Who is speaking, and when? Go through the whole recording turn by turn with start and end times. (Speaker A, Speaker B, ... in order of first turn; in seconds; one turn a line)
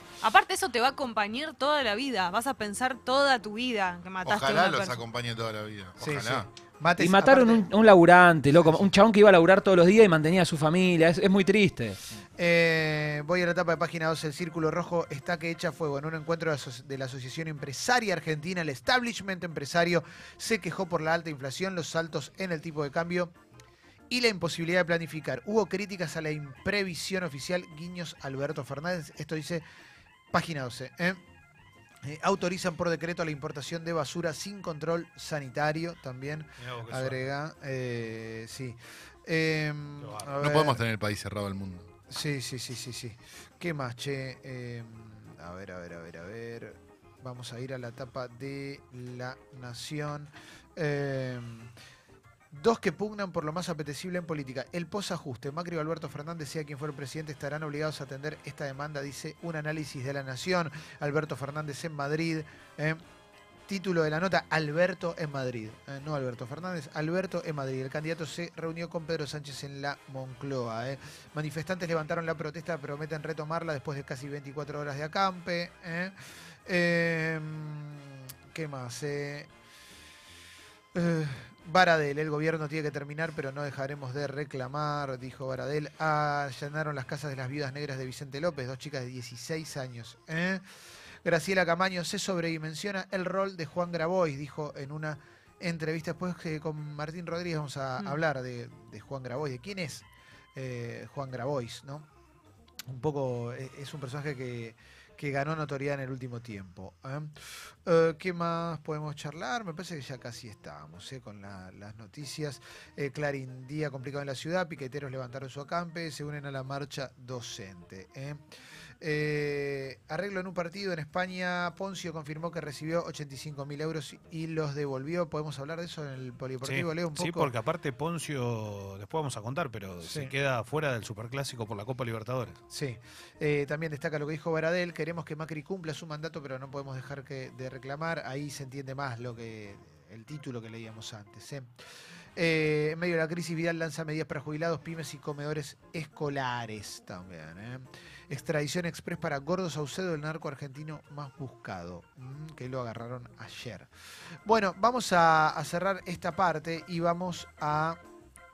Speaker A: 0.2-5.0
Speaker B: 4.2-6.5
Speaker C: 6.0-7.7
Speaker D: 7.0-12.0
Speaker C: 12.4-23.3
Speaker C: 24.1-29.6
Speaker C: 30.3-31.2
Speaker C: 32.0-40.8
Speaker E: 36.6-37.3
Speaker E: 40.0-40.4
Speaker B: 40.4-41.9
Speaker C: 42.1-51.7
Speaker C: 52.5-63.0
Speaker C: 63.7-76.1
Speaker C: 76.7-79.5
Speaker C: 80.9-90.6
Speaker C: 91.2-102.1
Speaker C: 102.9-118.4
Speaker C: 119.0-127.5
Speaker E: 126.6-132.6
Speaker C: 130.0-130.3
Speaker C: 132.7-141.7
Speaker C: 142.4-153.9
Speaker C: 154.4-158.0